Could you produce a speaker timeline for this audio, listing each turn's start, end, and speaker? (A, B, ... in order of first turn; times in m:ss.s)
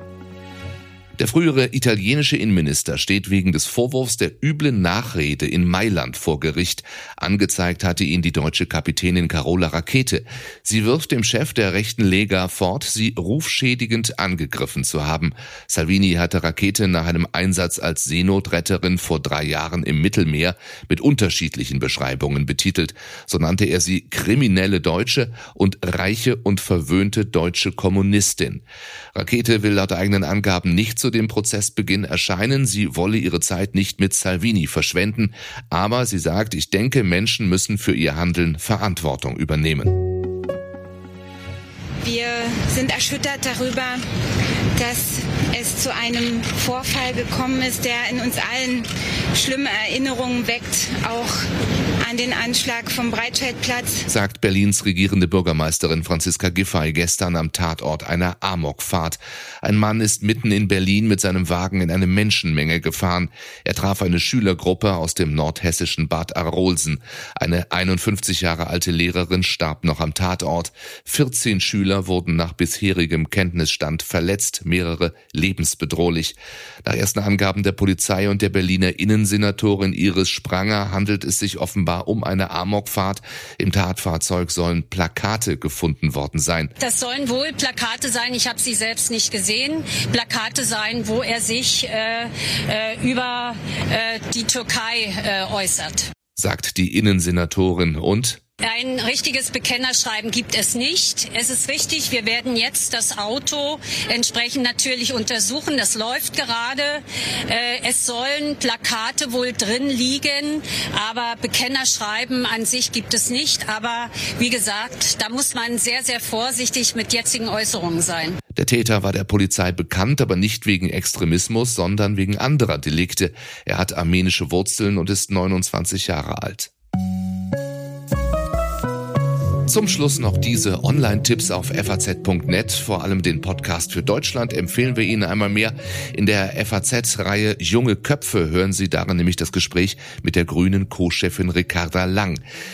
0:01.2-0:40.0 A
0:42.0-0:44.0 B
0:44.8-0:51.4 B
0:52.0-0:54.0 B
0:54.1-1:26.7 A
1:26.8-1:36.1 C
1:36.4-1:38.4 A
1:38.6-1:58.4 C
1:58.6-2:06.7 A
2:09.7-2:22.4 A